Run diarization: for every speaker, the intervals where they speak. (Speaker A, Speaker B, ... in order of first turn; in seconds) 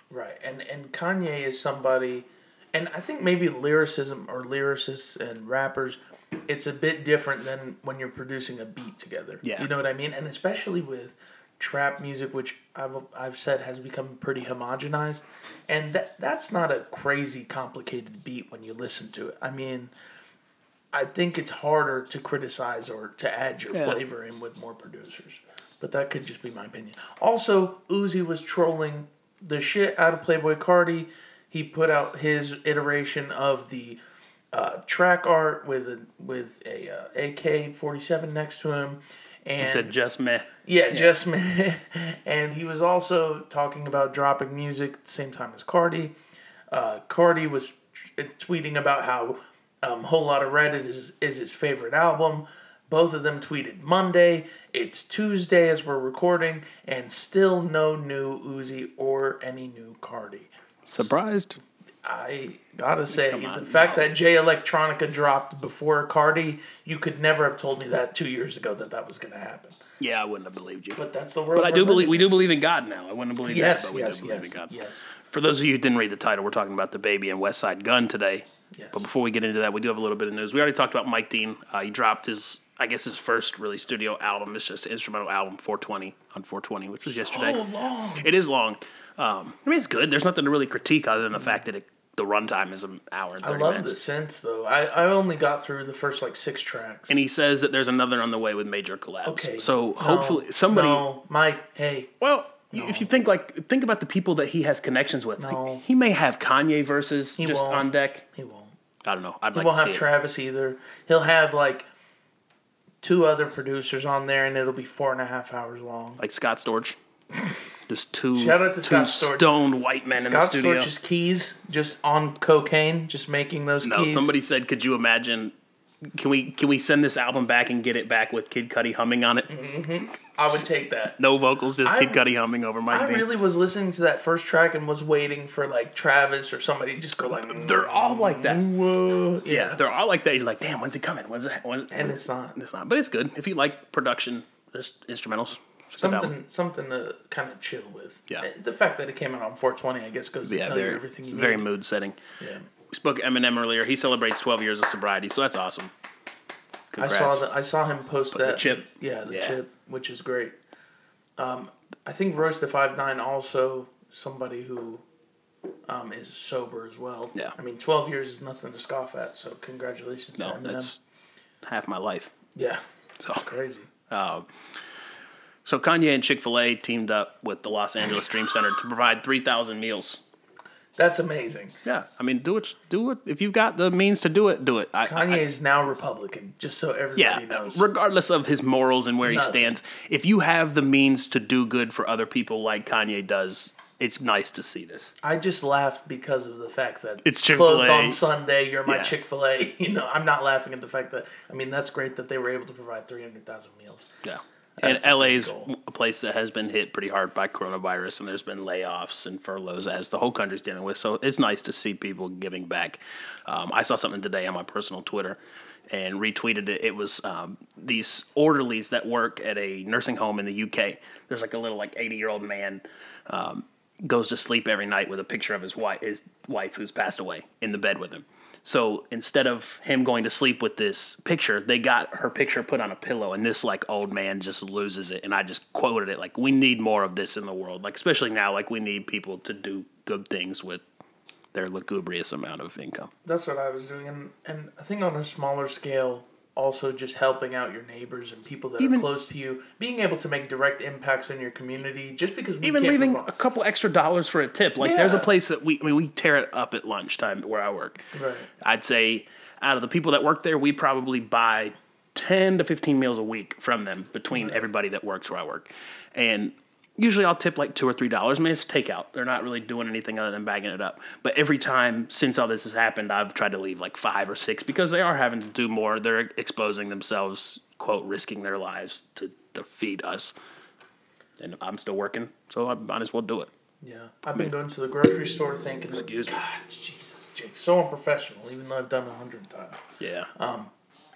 Speaker A: 0.1-19.9, 20.9-34.0, 34.5-39.9, 40.6-46.1, 46.7-61.1, 62.0-69.8, 71.0-72.3, 73.5-75.0, 78.7-79.1, 87.1-88.3, 93.4-97.1, 99.2-102.1, 102.7-103.1, 105.4-105.8, 107.4-108.7, 109.5-111.9, 113.0-116.2, 118.3-119.5, 120.1-124.3, 129.5-131.2, 131.8-132.2, 132.9-139.8, 141.9-142.6, 146.0-151.7, 152.4-152.7, 157.0-160.5, 161.4-165.0, 165.9-170.9, 172.5-172.8, 173.3-173.9, 181.0-181.7, 185.1-187.8, 189.2-189.7, 195.2-204.1, 204.8-205.7, 243.2-253.3, 254.8-255.3, 258.1-258.5, 264.3-264.6, 283.8-289.8, 290.4-290.7
Speaker B: 9.4-9.7, 23.7-24.0, 39.6-41.1, 60.9-61.6, 63.1-64.1, 70.0-71.0, 71.5-87.6, 88.2-93.9, 97.1-101.0, 102.2-108.2, 109.0-110.0, 116.2-117.0, 117.9-120.9, 123.8-129.5, 131.2-133.2, 137.5-138.6, 139.5-146.3, 150.4-152.2, 152.9-155.9, 156.9-157.4, 158.3-159.6, 170.4-171.0, 171.6-172.3, 173.2-173.5, 174.1-174.5, 175.6-180.2, 181.8-185.4, 187.2-195.1, 197.2-198.2, 198.8-199.1, 204.2-215.4, 215.9-240.8, 241.5-243.1, 248.8-249.1, 252.6-258.1, 258.6-280.3, 281.4-283.5, 285.9-286.4, 290.0-290.3